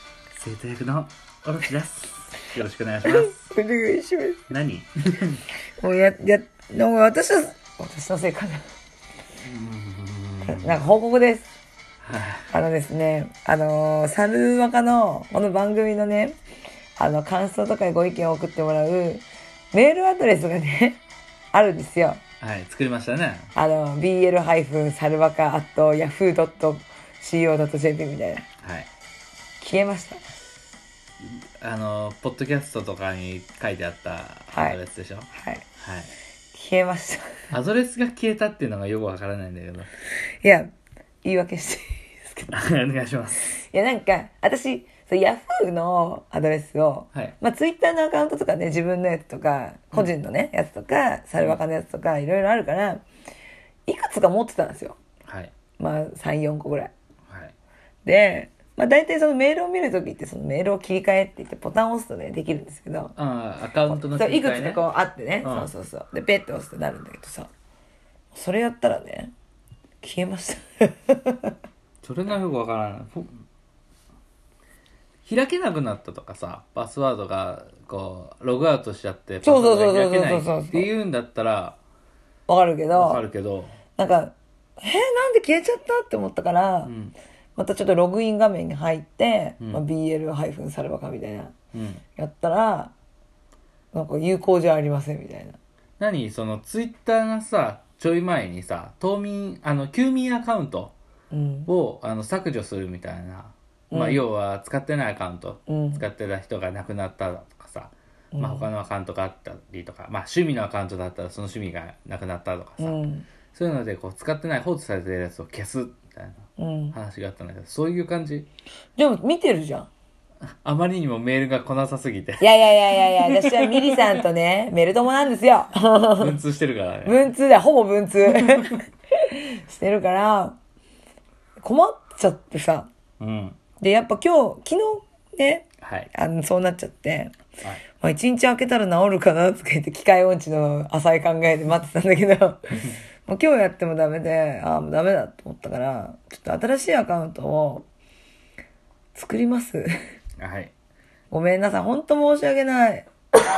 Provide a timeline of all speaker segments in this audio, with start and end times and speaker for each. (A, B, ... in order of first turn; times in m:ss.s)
0:00.3-0:03.3 A
0:03.0-0:04.5 B
0:04.5-0:05.4 A
0:05.8-0:08.6 B
0:09.4-0:10.8 A
0:10.5-0:11.5 B
0:12.0-0:12.5 A
0:12.5-0:16.4 B
0:17.0-0:21.0 B
0:21.5-0:22.2 B
0:22.4-0:23.5 A
0:23.6-0:28.5 B
0:28.6-0:28.9 A
0:29.6-0:30.2 B
0:31.2-0:36.1 A
0:34.5-0:34.8 B
0:35.3-0:35.6 B
0:36.5-0:37.4 B
0:37.5-0:39.9 A
0:40.4-0:42.5 B
0:42.5-0:43.6 A
0:43.4-0:53.0 B
0:53.9-0:55.0 B
0:55.3-0:55.5 A
0:55.8-0:56.9 B
0:57.3-0:57.5 A
0:58.0-1:03.1 B
1:03.2-1:04.8 A
1:03.9-1:07.5 B
1:05.4-1:05.7 A
1:08.3-1:09.3 B
1:10.0-1:11.5 B
1:12.0-1:13.4 A
1:15.2-1:21.8 A
1:19.4-1:20.9 B
1:22.5-1:23.2 B
1:22.9-1:23.7 A
1:24.0-1:26.9 B
1:26.9-1:27.1 A
1:27.6-1:31.5 B
1:31.7-1:32.0 A
1:32.2-1:32.9 B
1:33.9-1:35.6 B
1:36.0-1:40.9 A
1:41.3-1:41.7 B
1:41.7-1:53.0 A
1:43.9-1:44.2 B
1:45.7-1:46.0 B
1:48.3-1:48.7 B
1:52.8-1:53.2 B
1:53.5-1:58.5 A
1:56.6-1:57.0 B
1:59.0-1:59.9 B
2:00.6-2:04.2 A
2:02.4-2:06.4 B
2:06.2-2:07.3 A
2:07.0-2:10.6 B
2:11.6-2:12.9 B
2:13.2-2:13.6 A
2:13.8-2:17.3 B
2:15.8-2:16.1 A
2:18.0-2:27.8 B
2:29.1-2:29.9 B
2:30.4-2:30.7 A
2:31.3-2:33.1 B